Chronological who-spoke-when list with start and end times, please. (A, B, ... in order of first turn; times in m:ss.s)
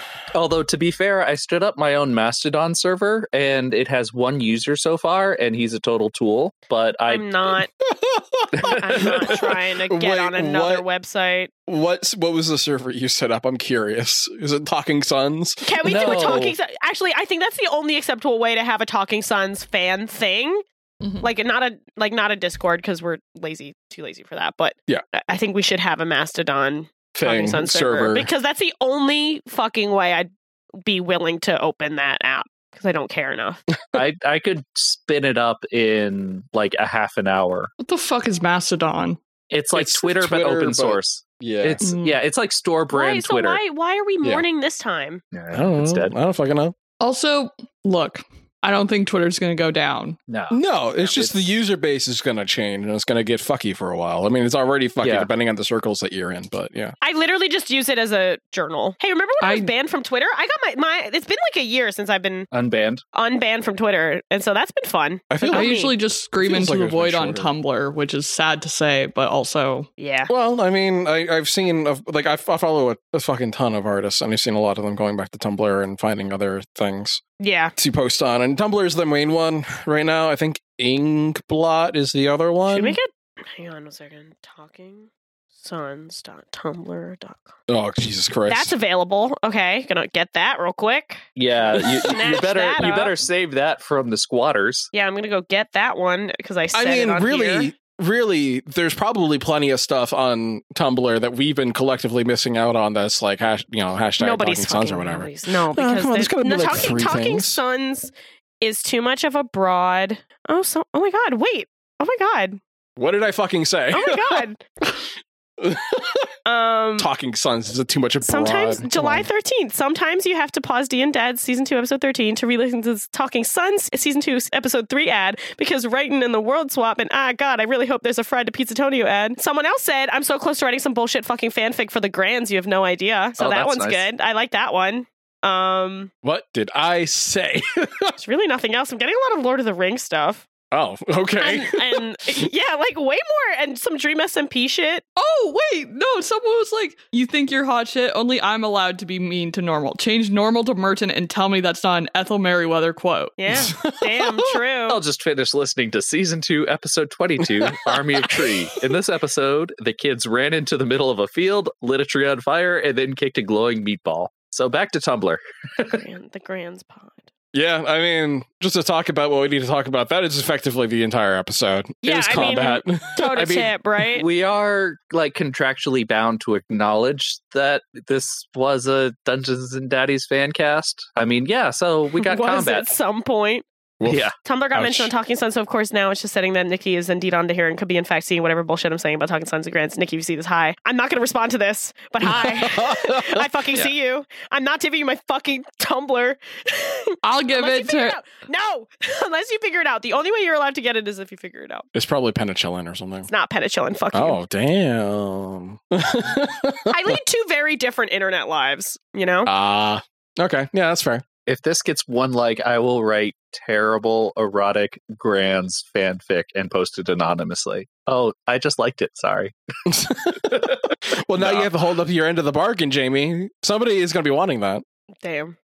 0:00.3-0:07.3 A
0:07.1-0:07.7 B
0:07.8-0:10.9 C
0:08.6-0:09.3 A
0:08.6-0:11.5 B
0:11.7-0:16.3 C
0:15.6-0:20.6 B
0:15.8-0:16.6 A
0:21.0-0:21.3 D
0:21.2-0:30.3 B
0:27.2-0:28.3 C
0:30.8-0:33.6 B
0:33.9-0:37.7 A
0:37.8-0:39.2 D
0:39.5-0:43.6 A
0:39.7-0:41.8 C
0:41.8-0:42.2 D
0:42.9-0:45.2 B
0:45.3-0:46.1 A
0:45.5-0:46.8 C
0:47.0-0:50.2 D
0:50.3-0:51.6 A
0:50.5-0:56.9 C
0:55.0-0:55.3 A
0:57.0-1:02.5 B
0:59.4-0:59.7 D
1:02.5-1:03.0 A
1:03.1-1:05.9 B
1:05.3-1:05.8 C
1:05.5-1:09.9 D
1:06.4-1:07.5 C
1:10.0-1:10.3 B
1:10.3-1:17.2 C
1:17.4-1:17.7 B
1:17.8-1:23.0 C
1:22.7-1:27.6 B
1:27.7-1:28.8 C
1:28.5-1:33.2 B
1:31.4-1:34.9 A
1:34.9-1:37.7 B
1:36.7-1:47.6 C
1:44.2-1:52.6 B
1:53.0-1:54.5 C
1:53.9-1:54.6 B
1:55.6-1:56.3 C
1:56.5-1:57.1 B
1:57.0-1:59.3 C
1:58.2-2:16.1 B
2:13.4-2:14.1 A
2:16.2-2:18.2 C
2:18.2-2:20.5 B
2:20.7-2:22.4 C
2:21.4-2:25.0 B
2:25.2-2:33.4 D
2:33.4-2:35.0 B
2:33.5-2:34.5 C
2:34.9-2:46.0 A
2:37.6-2:38.0 C
2:45.9-2:47.3 B
2:47.5-2:53.7 C
2:52.0-2:54.3 B
2:54.1-3:02.9 A
3:02.2-3:03.7 B
3:04.0-3:05.1 C
3:04.0-3:04.4 A
3:04.4-3:21.9 B
3:12.2-3:13.6 C
3:17.2-3:18.2 D
3:21.9-3:23.3 C
3:23.3-3:24.4 B
3:24.1-3:27.2 C
3:26.9-3:29.5 B
3:29.5-3:31.2 C
3:31.5-3:39.6 A
3:39.9-3:44.8 C
3:41.4-3:41.7 A
3:45.2-3:45.6 B